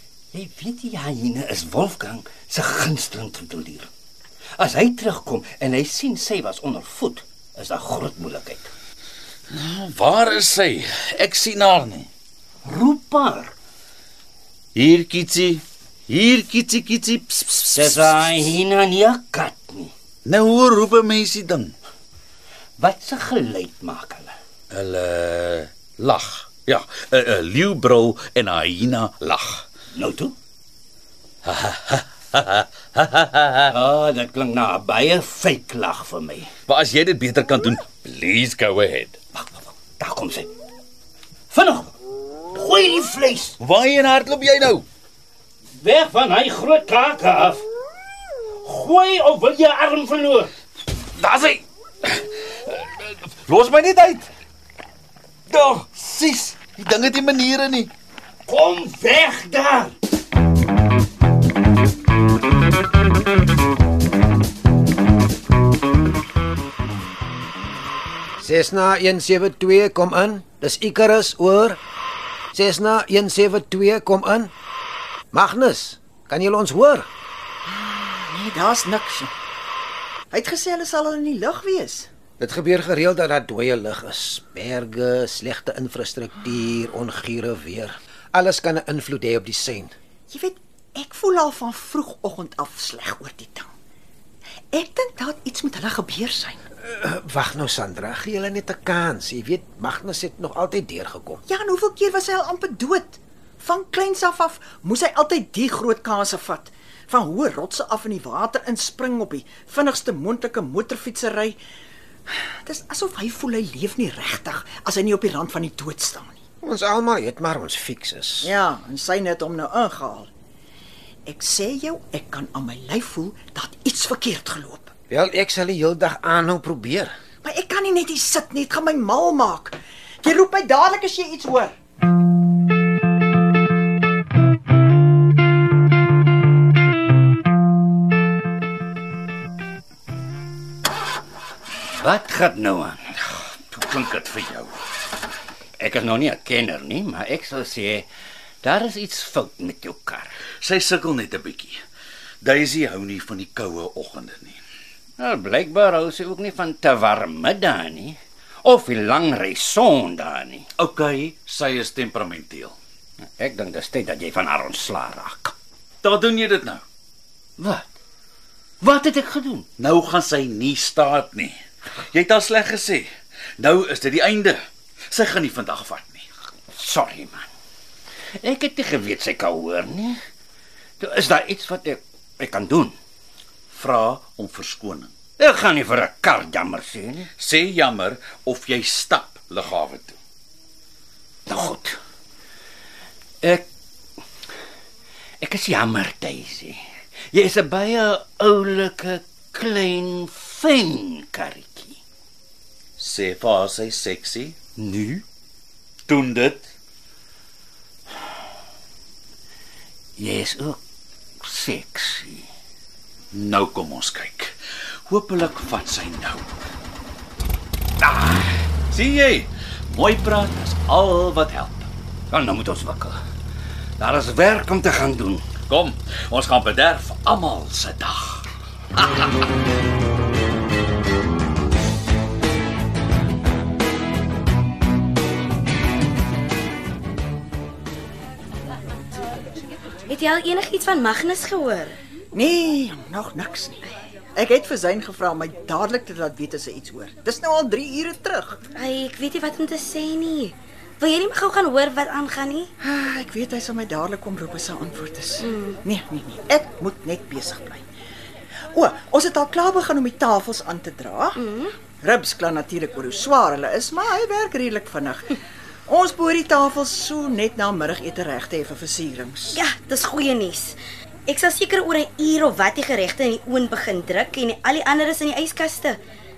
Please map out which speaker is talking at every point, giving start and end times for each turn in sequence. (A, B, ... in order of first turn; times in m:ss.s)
0:00.3-0:03.9 A
0:04.6-0:08.7 A
0:09.5-0:12.1 B
0:12.6-0:13.5 A
0:14.7-0:18.3 B
0:17.6-0:19.9 A
0:20.2-0:21.7 B
0:22.8-0:24.3 A
0:24.7-0:29.6 B
0:29.9-0:30.3 A
0:31.4-0:33.8 B
0:33.7-0:36.5 A
0:36.7-0:39.2 B
0:39.4-0:40.5 A
0:41.5-0:41.9 A
0:42.5-0:43.5 A
0:43.6-0:44.8 B
0:45.8-0:47.6 A
0:48.6-0:50.5 A
0:51.2-0:54.3 B
0:55.5-0:57.9 B
0:58.5-0:59.9 A
1:08.4-1:11.8 C
1:12.5-1:14.5 C
1:15.3-1:17.1 C
1:17.6-1:19.3 D
1:20.3-1:22.1 D
1:22.4-1:29.9 C
1:30.3-1:33.7 D
1:34.7-1:36.6 D
1:36.8-1:41.4 C
1:41.4-1:51.6 D
1:52.3-1:56.4 D
1:56.6-1:58.5 C
1:58.4-2:00.3 D
2:01.2-2:04.9 D
2:05.1-2:07.1 C
2:07.4-2:11.8 D
2:21.9-2:23.0 A
2:23.7-2:24.7 B
2:25.8-2:28.0 A
2:28.6-2:30.3 A
2:30.6-2:31.8 B
2:32.4-2:34.6 B
2:35.2-2:40.7 A
2:40.8-2:42.8 B
2:43.4-2:45.5 A
2:46.0-2:46.8 B
2:47.6-2:47.9 A
2:48.8-2:49.6 A
2:49.8-2:56.2 B
2:56.7-2:57.5 A
2:58.4-3:00.2 A
3:01.0-3:02.9 A
3:03.7-3:05.1 B
3:05.4-3:07.3 A
3:07.4-3:10.2 B
3:11.5-3:12.0 A
3:15.4-3:22.0 A
3:23.0-3:24.6 B
3:24.8-3:25.2 A
3:26.1-3:26.7 B
3:30.2-3:30.8 A
3:31.4-3:32.5 A
3:33.3-3:34.5 B
3:35.1-3:36.5 B
3:38.0-3:41.9 B
3:42.3-3:43.2 A
3:44.0-3:45.5 A
3:45.7-3:49.3 B
4:00.1-4:02.0 E
4:02.3-4:03.8 D
4:04.4-4:08.6 D
4:08.7-4:12.7 E
4:12.8-4:17.8 D
4:15.4-4:15.8 E
4:18.7-4:21.4 D
4:21.4-4:21.7 E
4:22.0-4:29.6 D
4:29.5-4:36.0 E